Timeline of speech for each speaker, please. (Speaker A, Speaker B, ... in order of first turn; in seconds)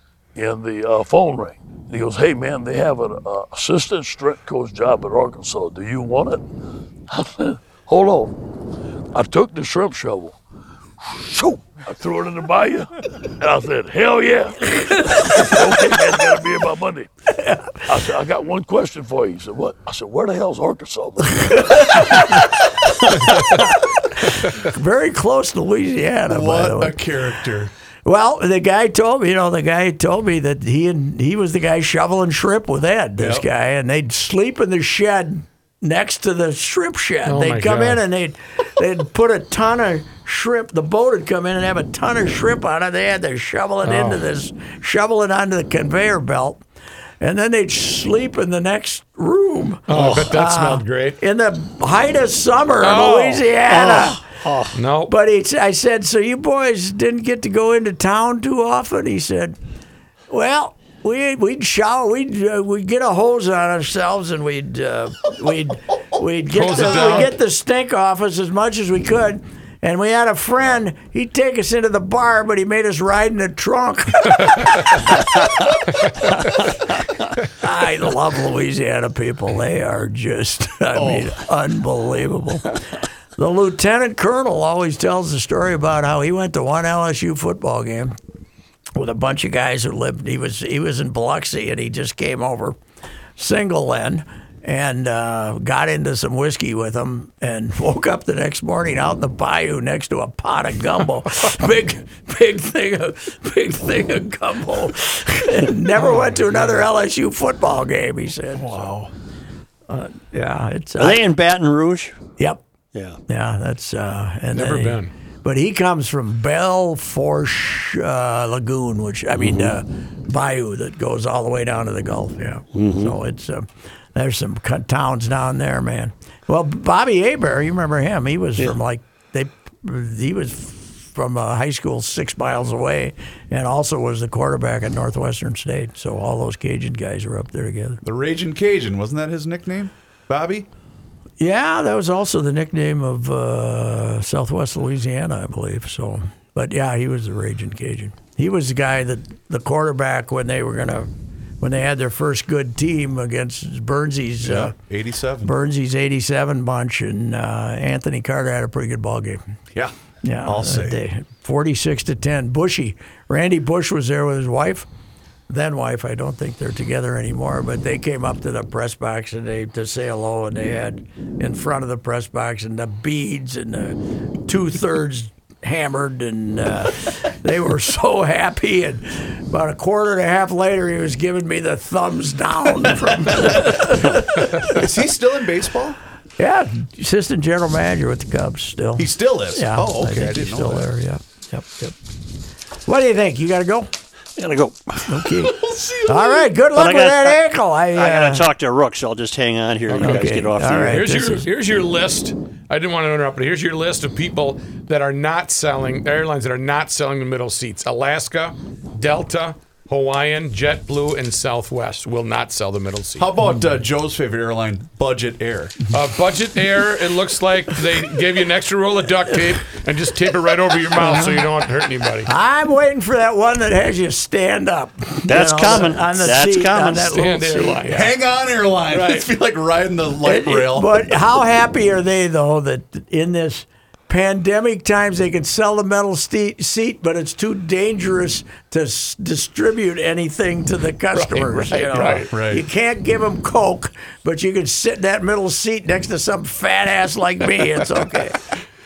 Speaker A: 0.3-6.4, 7.1-8.3, 9.1-10.4, 11.0-17.1, 17.9-22.2
Speaker B: 17.3-17.8, 21.8-22.1, 24.5-27.0, 28.1-46.6, 47.2-54.2, 55.1-59.5, 60.3-75.3, 76.2-76.6, 77.5-82.8, 83.4-88.1, 89.0-92.8, 93.4-108.9, 109.9-111.3, 113.3-138.0, 141.4-151.1, 151.6-154.7, 155.4-159.4, 160.2-164.8, 165.5-173.9, 174.5-184.8, 186.4-191.9, 192.8-193.9, 195.1-198.4, 199.9-201.5, 221.0-221.5, 222.2-228.0, 230.2-248.4
Speaker C: 26.3-27.7, 33.2-33.5, 80.9-81.4, 108.6-109.1, 138.0-140.7, 154.4-155.5, 159.7-161.0, 182.9-186.0, 189.0-190.9, 195.4-196.5, 213.2-215.8, 227.9-231.1, 242.0-242.6
Speaker D: 37.2-38.0, 43.8-44.2, 49.9-51.2, 52.8-53.5, 54.7-55.1, 66.5-67.3, 114.5-115.1, 199.9-213.3, 215.9-222.3, 227.1-228.1, 228.9-229.3, 241.1-242.3
Speaker E: 49.9-50.3, 53.7-54.8, 111.0-112.2, 119.3-119.8, 122.7-123.1, 194.4-195.4, 196.7-197.4, 197.9-201.0, 225.3-227.2